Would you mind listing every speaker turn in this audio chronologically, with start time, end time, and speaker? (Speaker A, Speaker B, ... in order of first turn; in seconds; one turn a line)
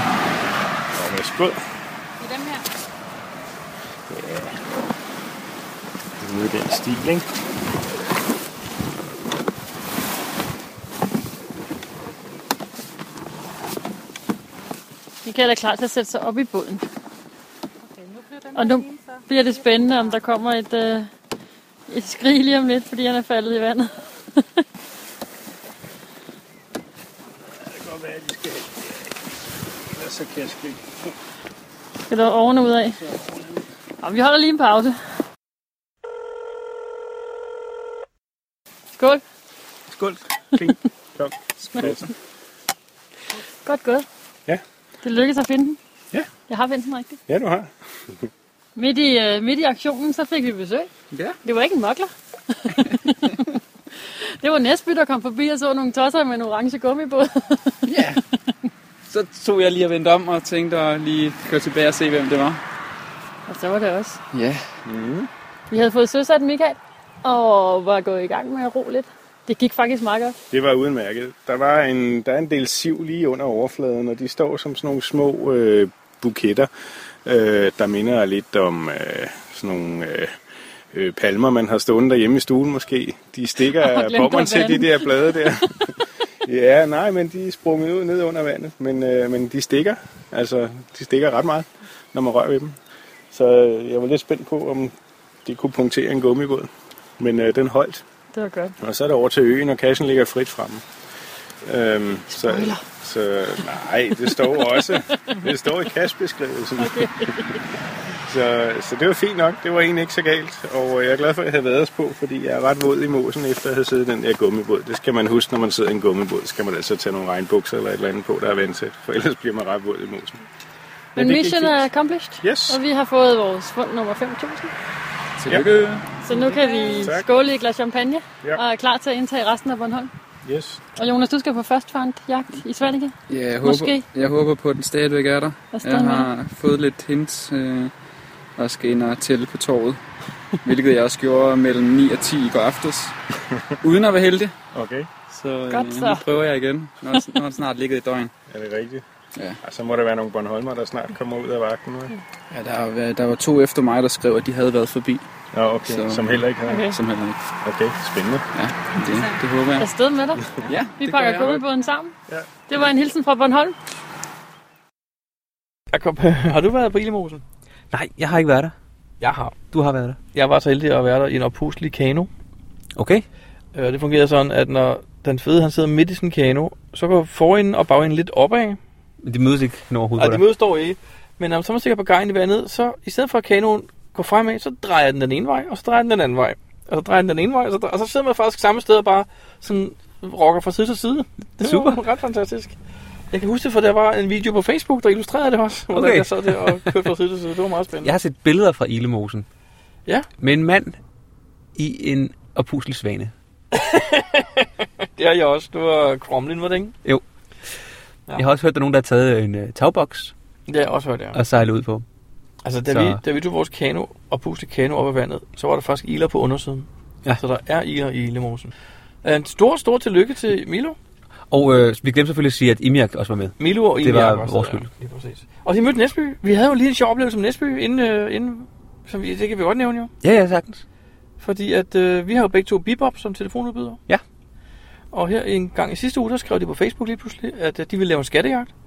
Speaker A: 0.9-1.6
Speaker B: 2.2-2.6
Speaker A: 4.1-4.5
Speaker A: 6.2-7.2
Speaker B: 15.2-16.8
Speaker B: 18.5-21.1
Speaker B: 21.9-24.0
Speaker A: 27.6-29.0
Speaker A: 29.9-30.9
Speaker B: 32.1-33.0
Speaker A: 33.1-33.4
Speaker B: 34.0-35.0
Speaker B: 39.0-39.2
Speaker A: 39.9-42.1
Speaker B: 43.6-44.0
Speaker B: 45.0-45.8
Speaker B: 46.5-47.2
Speaker A: 47.3-47.7
Speaker B: 48.8-50.9
Speaker C: 51.1-51.4
Speaker B: 51.4-52.1
Speaker B: 52.6-53.4
Speaker B: 54.4-57.9
Speaker C: 57.9-58.2
Speaker C: 59.0-62.6
Speaker B: 63.5-64.2
Speaker C: 64.3-64.6
Speaker A: 64.8-65.3
Speaker B: 65.7-70.3
Speaker A: 70.5-76.7
Speaker A: 77.2-80.3
Speaker A: 80.9-85.9
Speaker B: 83.6-85.9
Speaker A: 86.4-92.8
Speaker A: 93.3-94.9
Speaker A: 95.4-98.0
Speaker B: 98.3-98.7
Speaker A: 98.8-100.8
Speaker A: 101.6-107.3
Speaker B: 102.3-102.8
Speaker B: 104.3-105.7
Speaker B: 106.8-107.6
Speaker A: 108.2-120.4
Speaker A: 121.2-121.9
Speaker B: 121.2-124.7
Speaker A: 122.4-122.8
Speaker C: 125.4-126.1
Speaker B: 126.2-130.1
Speaker A: 126.3-127.3
Speaker A: 130.4-130.8
Speaker B: 130.9-134.1
Speaker C: 133.3-137.9
Speaker B: 135.7-136.3
Speaker C: 138.6-140.0
Speaker C: 140.6-143.2
Speaker C: 143.8-144.5
Speaker A: 144.7-145.1
Speaker C: 145.3-148.3
Speaker B: 145.7-146.4
Speaker B: 147.1-147.4
Speaker A: 148.5-149.0
Speaker A: 149.6-152.1
Speaker C: 152.5-155.2
Speaker A: 155.5-156.9
Speaker C: 155.8-157.4
Speaker B: 156.7-157.0
Speaker A: 157.6-158.4
Speaker C: 158.5-159.9
Speaker B: 159.8-162.1
Speaker C: 160.6-161.6
Speaker B: 162.7-163.8
Speaker D: 165.9-167.4
Speaker E: 167.9-168.7
Speaker D: 169.2-169.5
Speaker E: 169.7-170.2
Speaker D: 170.3-172.3
Speaker E: 172.9-173.2
Speaker D: 173.7-178.8
Speaker E: 179.2-180.4
Speaker D: 180.2-192.8
Speaker E: 191.6-192.0
Speaker D: 193.3-198.1
Speaker E: 195.9-196.9
Speaker E: 198.0-199.4
Speaker E: 200.4-201.0
Speaker E: 201.8-203.3
Speaker D: 203.7-206.9
Speaker E: 208.3-210.3
Speaker D: 210.7-211.4
Speaker E: 211.3-212.0
Speaker D: 212.6-216.9
Speaker E: 212.9-213.2
Speaker D: 217.4-218.7
Speaker D: 219.2-221.0
Speaker E: 221.5-224.9
Speaker D: 223.6-230.1
Speaker E: 230.2-230.8
Speaker D: 231.4-234.0
Speaker D: 235.1-238.7